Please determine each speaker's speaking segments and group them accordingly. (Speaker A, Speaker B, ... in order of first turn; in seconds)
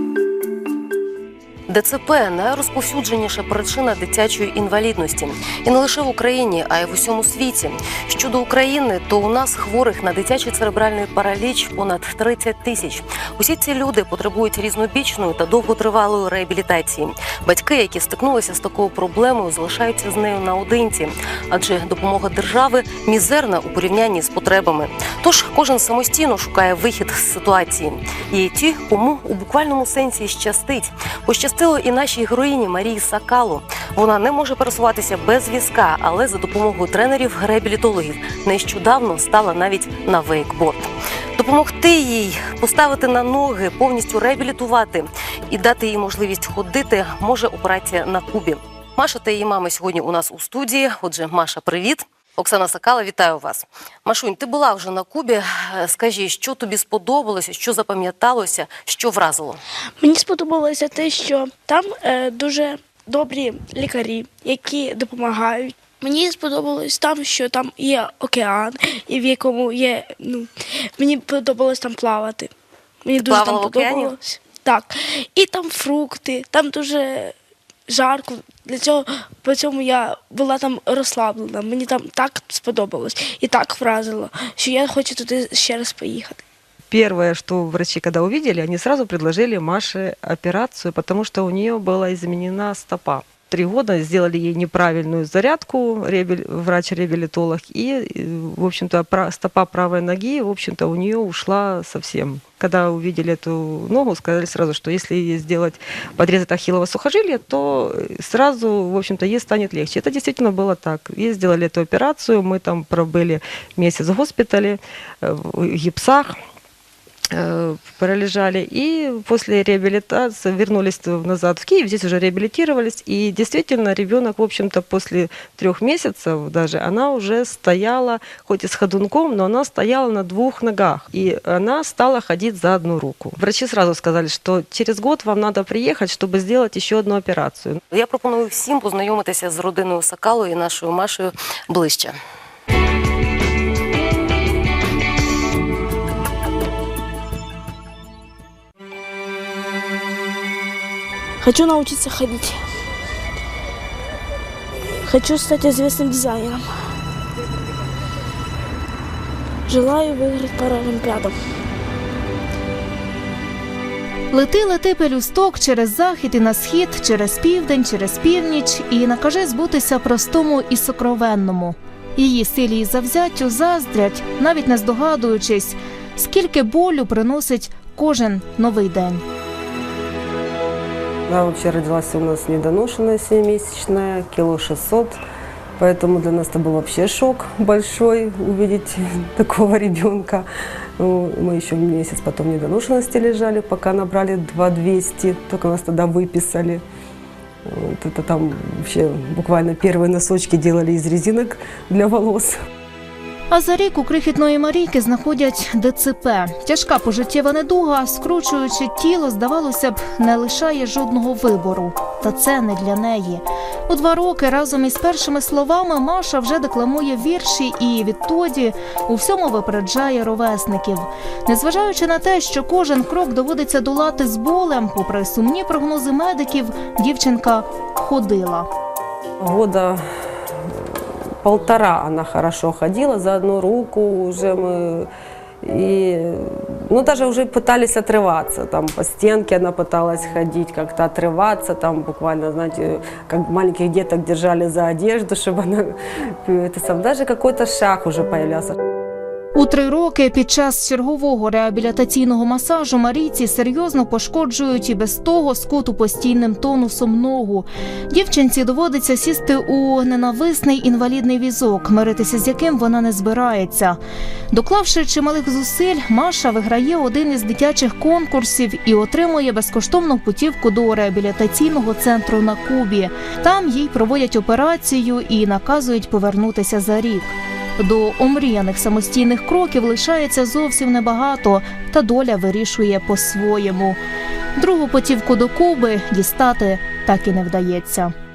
Speaker A: 1.7-59.6, 73.2-74.2, 137.9-142.2
Speaker B: 60.0-72.5, 73.0-77.3, 77.9-86.4, 151.4-152.6, 155.1-156.7, 159.7-161.3
Speaker C: 86.9-116.4, 117.3-137.8
Speaker D: 164.3-179.2, 203.5-228.7, 249.6-264.0, 264.5-284.0, 284.6-288.1
Speaker E: 181.3-185.2, 185.8-196.8, 197.7-202.6, 229.4-230.0, 231.4-235.1, 235.6-248.8